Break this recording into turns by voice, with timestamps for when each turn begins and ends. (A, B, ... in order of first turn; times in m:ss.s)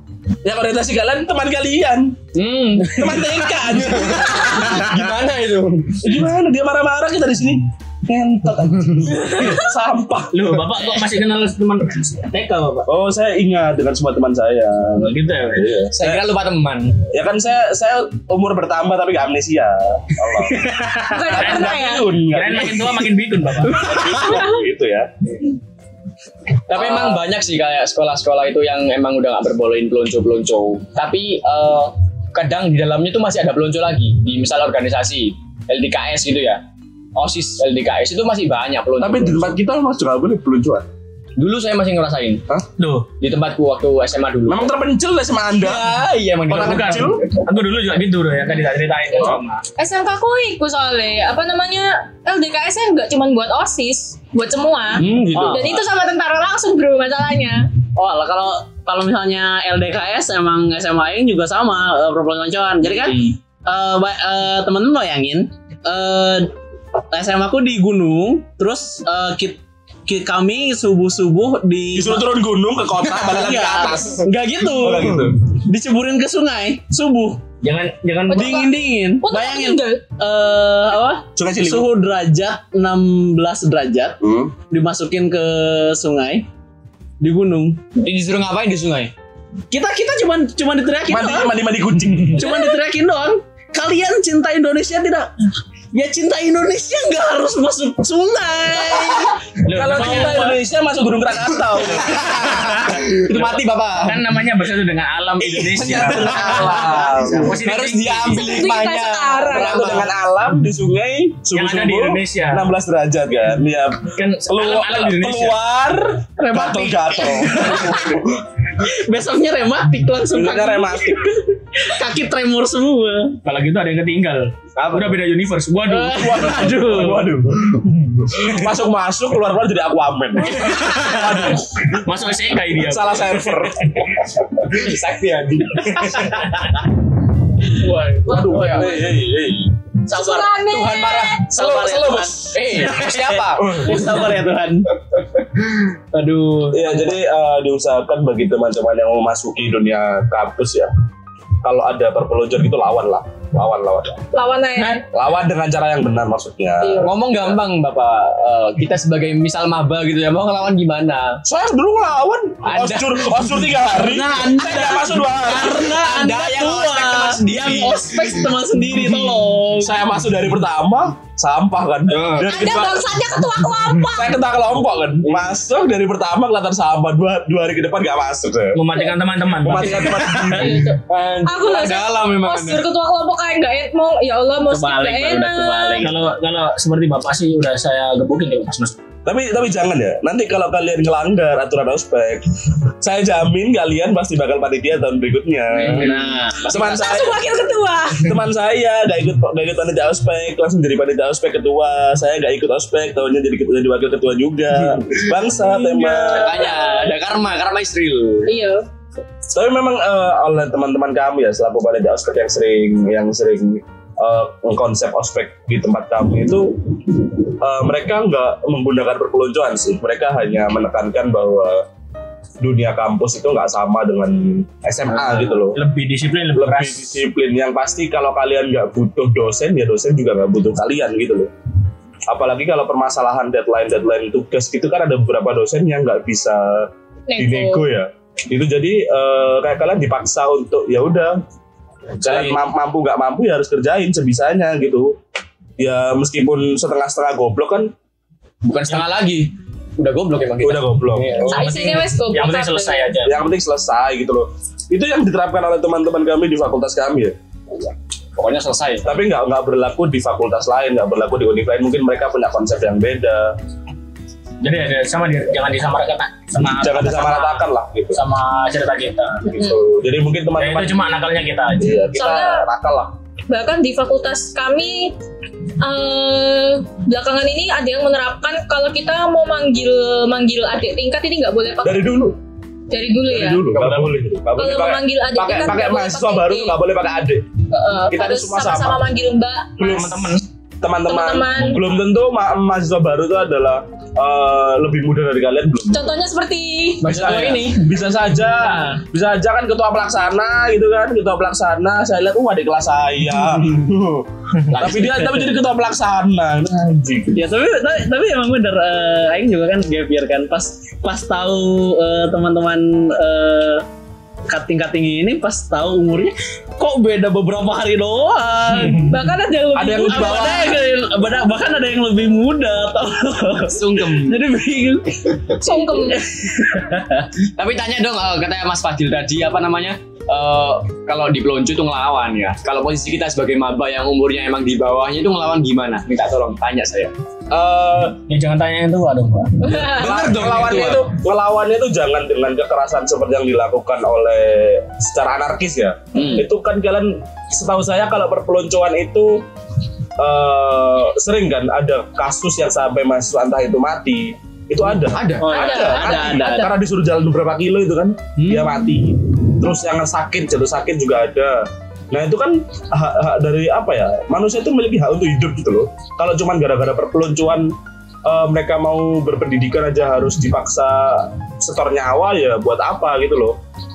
0:00.4-0:02.2 A
0:02.3-0:06.1 B
0:02.9-0:05.1 A
0:06.0-0:10.6 A
0:10.3-0:12.9 C
0:12.9-0:16.3 A
0:15.0-0:15.7 C
0:15.9-0:17.0 B
0:17.1-0:23.0 A
0:20.7-0:21.1 B
0:21.1-0:22.1 D
0:21.4-0:23.9 C
0:23.7-0:25.1 A
0:23.8-0:24.4 B
0:26.7-0:36.6 B
0:26.7-0:27.1 A
0:37.2-0:39.5 B
0:39.0-0:40.8 A
0:41.4-0:42.4 B
0:42.8-0:43.1 C
0:43.2-0:44.7 B
0:44.5-0:47.2 A
0:45.6-0:47.2 B
0:46.5-0:49.6 C
0:49.8-0:57.7 D
0:55.0-0:55.8 B
0:55.3-0:55.8 C
0:57.9-1:06.5 E
1:02.8-1:03.3 C
1:07.1-1:12.3 E
1:11.9-1:15.4 A
1:13.1-1:17.4 E
1:17.6-1:18.6 C
1:18.3-1:20.0 D
1:18.3-1:24.2 E
1:21.4-1:21.9 A
1:24.2-1:24.5 A
1:24.7-1:26.4 E
1:27.2-1:27.8 E
1:27.9-1:29.1 B
1:29.7-1:31.5 E
1:31.1-1:32.6 A
1:32.2-1:35.3 E
1:35.9-1:39.4 E
1:39.6-1:40.6 C
1:39.7-1:42.8 A
1:42.0-1:44.2 B
1:43.1-1:48.4 C
1:45.5-1:50.1 B
1:45.7-1:47.5 A
1:48.2-1:49.9 D
1:49.5-1:58.3 A
1:51.5-1:52.7 C
1:54.1-1:55.6 C
1:56.4-1:58.2 E
1:58.7-2:01.2 E
2:00.3-2:01.4 A
2:01.8-2:03.4 E
2:03.4-2:07.0 C
2:04.8-2:05.1 A
2:05.9-2:07.3 E
2:06.1-2:12.0 A
2:10.5-2:13.9 C
2:12.7-2:14.4 A
2:14.7-2:16.7 B
2:15.9-2:16.5 C
2:17.8-2:19.6 B
2:18.2-2:19.5 A
2:18.3-2:19.2 E
2:18.3-2:18.9 D
2:20.1-2:21.4 D
2:20.2-2:20.5 E
2:20.2-2:21.7 B
2:21.4-2:24.9 E
2:21.6-2:24.4 A
2:22.5-2:23.9 B
2:26.1-2:26.9 E
2:26.7-2:30.9 A
2:31.6-2:34.2 A
2:34.3-2:35.0 D
2:35.1-2:37.6 A
2:36.8-2:37.1 D
2:37.0-2:41.4 B
2:41.4-2:46.0 A
2:42.6-2:45.1 B
2:44.3-2:50.0 E
2:45.7-2:48.1 B
2:49.8-2:53.2 A
2:52.1-2:52.6 B
2:52.4-2:54.4 D
2:54.0-2:58.8 A
2:58.7-3:00.5 C
2:59.6-3:00.9 A
3:00.1-3:02.9 B
3:00.4-3:06.1 D
3:04.7-3:06.1 B
3:05.0-3:06.0 E
3:06.0-3:09.0 C
3:09.2-3:12.5 A
3:13.0-3:16.1 A
3:15.8-3:17.3 B
3:15.8-3:16.6 E
3:16.7-3:17.2 A
3:16.7-3:18.3 D
3:18.2-3:26.8 A
3:26.0-3:26.2 E
3:26.2-3:28.5 B
3:28.4-3:28.8 D
3:29.5-3:41.8 A
3:42.6-3:45.8 A
3:45.2-3:47.2 C
3:46.5-3:51.5 A
3:52.3-4:01.4 A
3:57.3-3:57.8 D
4:02.2-4:05.2 A
4:02.2-4:02.6 B
4:05.8-4:07.9 A
4:08.6-4:11.6 B
4:08.9-4:09.1 C
4:10.6-4:11.4 A
4:11.4-4:13.4 C
4:11.5-4:13.1 D
4:13.2-4:17.3 A
4:18.4-4:19.1 B
4:19.0-4:23.5 A
4:24.6-4:29.5 C
4:26.8-4:28.2 A
4:29.4-4:31.0 A
4:30.6-4:32.0 C
4:31.8-4:33.1 A
4:32.1-4:32.6 D
4:33.5-4:35.1 D
4:35.8-4:42.2 D
4:41.8-4:42.4 A
4:42.9-4:43.7 D
4:43.3-4:47.5 A
4:44.5-4:46.8 D
4:47.7-4:50.4 D
4:48.1-4:49.0 A
4:49.8-4:56.1 A
4:49.8-4:50.4 C
4:51.1-4:51.8 D
4:55.9-4:57.2 D
4:57.0-4:57.8 B
4:57.0-5:07.4 A
4:57.3-4:57.6 E
5:04.7-5:05.3 B
5:07.3-5:13.8 E
5:14.5-5:19.2 E
5:18.7-5:19.1 C
5:19.0-5:20.7 D
5:19.7-5:20.9 A
5:20.0-5:26.1 E
5:23.7-5:24.4 B
5:25.6-5:26.2 D
5:27.4-5:37.1 B
5:37.5-5:38.2 A
5:38.3-5:39.8 C
5:39.6-5:40.3 D
5:39.8-5:41.1 B
5:40.0-5:49.4 A
5:46.2-5:46.4 B
5:50.2-6:07.7 A
5:55.1-5:56.2 B
5:55.4-5:55.8 C
5:55.4-5:56.8 D
5:55.8-5:56.6 E
5:58.4-5:58.7 B
6:08.2-6:13.6 A